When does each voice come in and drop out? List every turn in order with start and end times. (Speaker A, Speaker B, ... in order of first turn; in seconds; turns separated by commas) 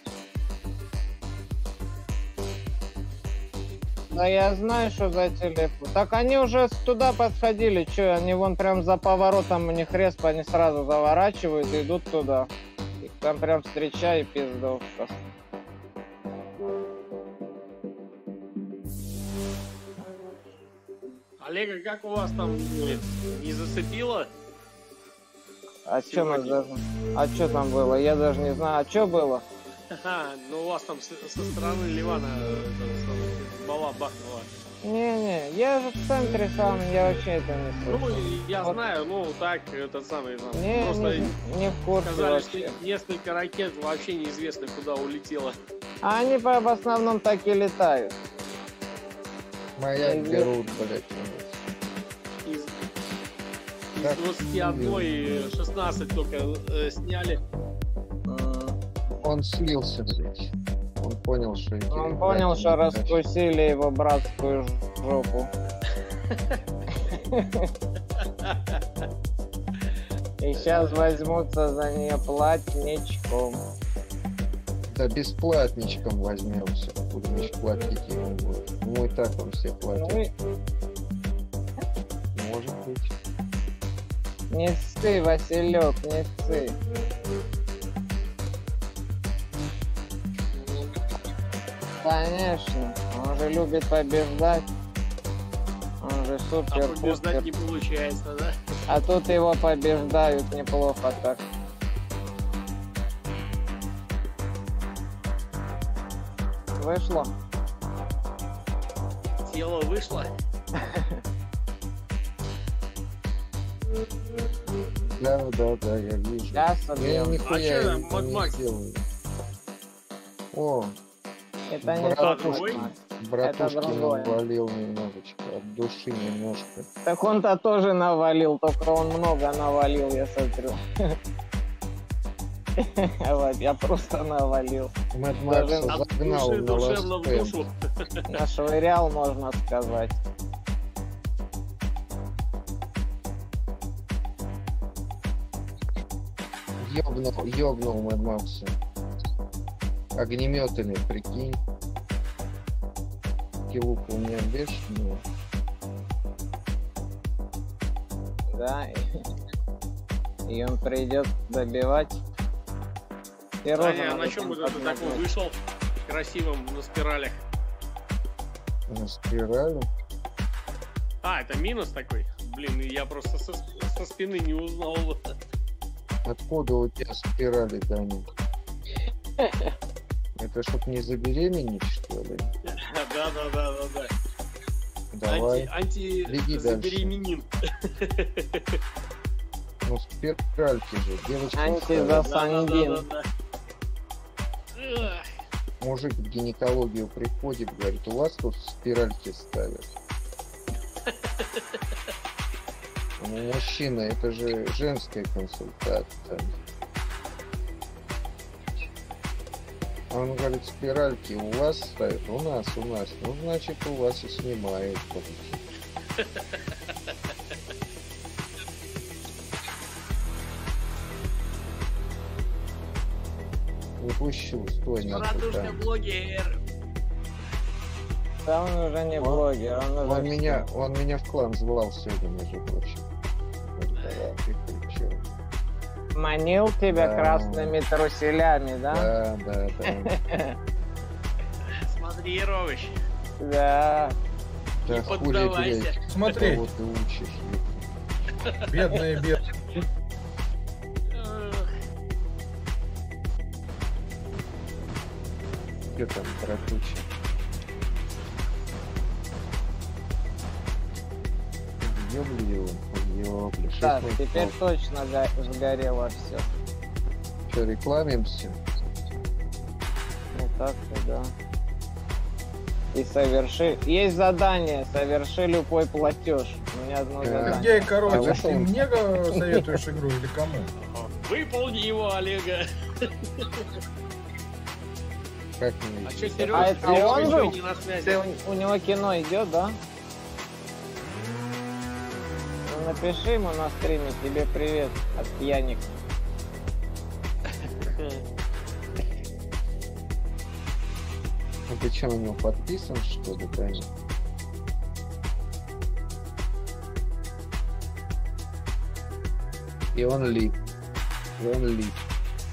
Speaker A: 4.1-15.2, Speaker B: 21.4-24.3, Speaker A: 25.9-29.4, Speaker B: 26.1-26.6, Speaker B: 29.9-34.5, Speaker A: 34.8-38.8, Speaker B: 37.9-41.3, Speaker A: 40.5-42.7, Speaker B: 42.0-45.5, Speaker A: 46.0-48.1, Speaker C: 49.8-51.6, Speaker A: 50.0-50.5, Speaker B: 52.5-52.8, Speaker B: 53.9-57.4, Speaker C: 54.0-55.0, Speaker A: 58.3-59.2, Speaker C: 59.2-63.2, Speaker A: 61.9-65.5, Speaker A: 66.9-67.7, Speaker B: 68.2-68.8, Speaker A: 70.4-73.6, Speaker B: 70.6-71.0, Speaker C: 74.9-80.2, Speaker A: 80.0-80.3, Speaker C: 82.3-83.1, Speaker A: 84.5-86.8, Speaker A: 92.0-94.7, Speaker A: 96.0-97.5, Speaker B: 96.7-98.5, Speaker A: 98.9-101.4, Speaker A: 106.8-107.3, Speaker B: 109.4-110.3, Speaker A: 110.8-111.2, Speaker C: 115.1-119.0, Speaker A: 116.5-117.4, Speaker B: 117.4-118.5, Speaker C: 120.5-121.0, Speaker A: 121.7-124.4, Speaker C: 121.8-126.9, Speaker B: 122.2-122.8, Speaker A: 127.0-131.2, Speaker A: 132.8-134.9, Speaker C: 135.1-137.6, Speaker A: 135.5-135.9, Speaker B: 135.9-137.7, Speaker A: 138.3-140.2, Speaker C: 146.8-148.8, Speaker C: 150.1-151.6, Speaker C: 153.7-155.2, Speaker A: 158.5-159.1, Speaker A: 160.5-162.2, Speaker A: 163.6-165.2, Speaker B: 163.8-165.5, Speaker B: 166.1-167.4, Speaker C: 168.9-169.9, Speaker B: 171.2-175.2, Speaker C: 176.2-178.3, Speaker A: 179.4-179.7, Speaker C: 180.4-182.5, Speaker B: 182.7-184.1, Speaker C: 185.1-185.7, Speaker B: 185.3-188.8, Speaker C: 186.3-187.1, Speaker C: 189.8-192.2, Speaker A: 191.5-193.0, Speaker B: 192.2-193.2, Speaker B: 194.8-195.2, Speaker C: 195.8-199.9, Speaker B: 201.1-201.8, Speaker C: 203.2-206.5, Speaker C: 210.1-215.6, Speaker B: 216.2-217.3, Speaker C: 224.0-225.8, Speaker B: 225.0-226.6, Speaker A: 228.4-230.7, Speaker C: 229.2-229.4, Speaker C: 230.0-233.0, Speaker C: 233.8-235.2, Speaker A: 236.1-239.1, Speaker C: 236.9-237.7, Speaker C: 238.9-240.1, Speaker A: 240.2-240.5, Speaker B: 241.8-242.9, Speaker A: 243.4-244.1, Speaker B: 244.8-246.4, Speaker C: 244.9-247.8, Speaker D: 246.1-246.6, Speaker D: 248.7-249.4, Speaker B: 251.1-251.7, Speaker C: 255.9-257.1, Speaker C: 261.8-264.5, Speaker A: 263.8-266.5, Speaker C: 267.5-268.6, Speaker A: 270.3-271.3, Speaker A: 272.9-278.4, Speaker C: 277.2-278.8, Speaker D: 277.4-280.7, Speaker B: 280.8-283.6, Speaker C: 285.6-287.5, Speaker B: 286.1-288.2, Speaker A: 286.5-289.8, Speaker A: 292.6-295.9, Speaker B: 297.5-298.2, Speaker C: 301.7-303.9, Speaker C: 309.9-310.6, Speaker C: 311.4-312.0